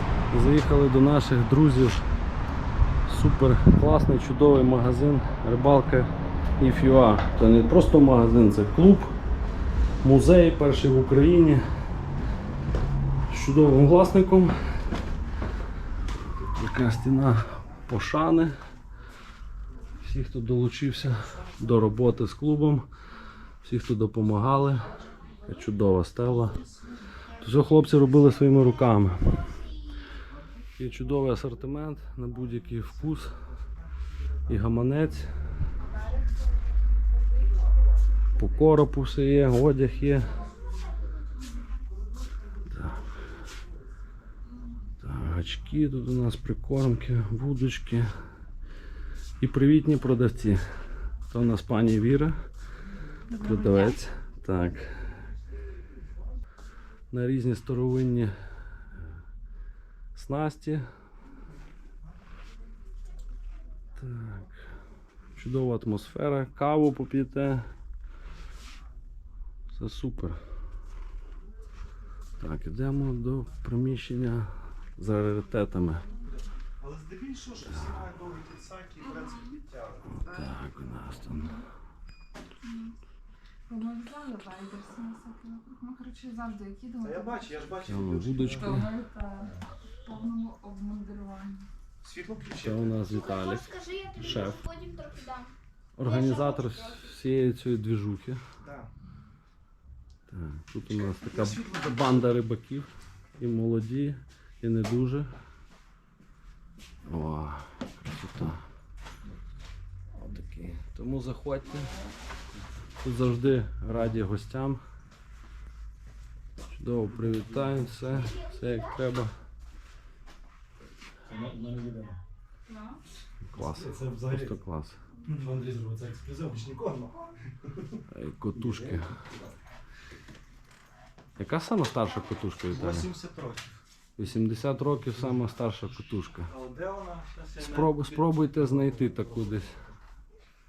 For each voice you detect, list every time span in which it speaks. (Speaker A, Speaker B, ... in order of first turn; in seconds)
Speaker A: 0.3-2.0, 3.1-9.2, 10.0-11.6, 13.3-14.6, 16.4-18.6, 20.0-22.9, 23.6-24.9, 25.5-26.6, 27.4-29.5, 30.8-33.4, 34.5-35.3, 38.4-40.4, 42.7-43.0, 45.0-48.1, 49.4-50.6, 51.3-52.4, 53.3-54.9, 57.1-58.3, 60.1-60.8, 64.0-64.6, 65.3-67.7, 69.7-70.4, 72.4-76.1, 80.2-81.6, 87.8-88.9, 92.6-94.6, 96.0-98.4, 100.3-105.3, 107.1-108.6, 110.2-112.0, 113.0-114.8, 116.7-119.3, 123.5-125.0, 128.1-129.2, 131.4-133.1, 134.2-136.5, 137.6-139.7
Speaker B: 33.8-34.2, 76.8-80.2, 87.0-88.7, 92.0-93.0, 98.6-98.9, 101.0-102.3, 121.3-122.2, 123.6-124.6, 125.2-127.4, 128.6-129.5, 132.7-133.8, 136.5-139.9
Speaker C: 53.3-53.9, 83.7-87.5, 88.6-91.7, 122.7-123.0
Speaker D: 82.7-82.9, 93.1-95.5, 96.0-97.0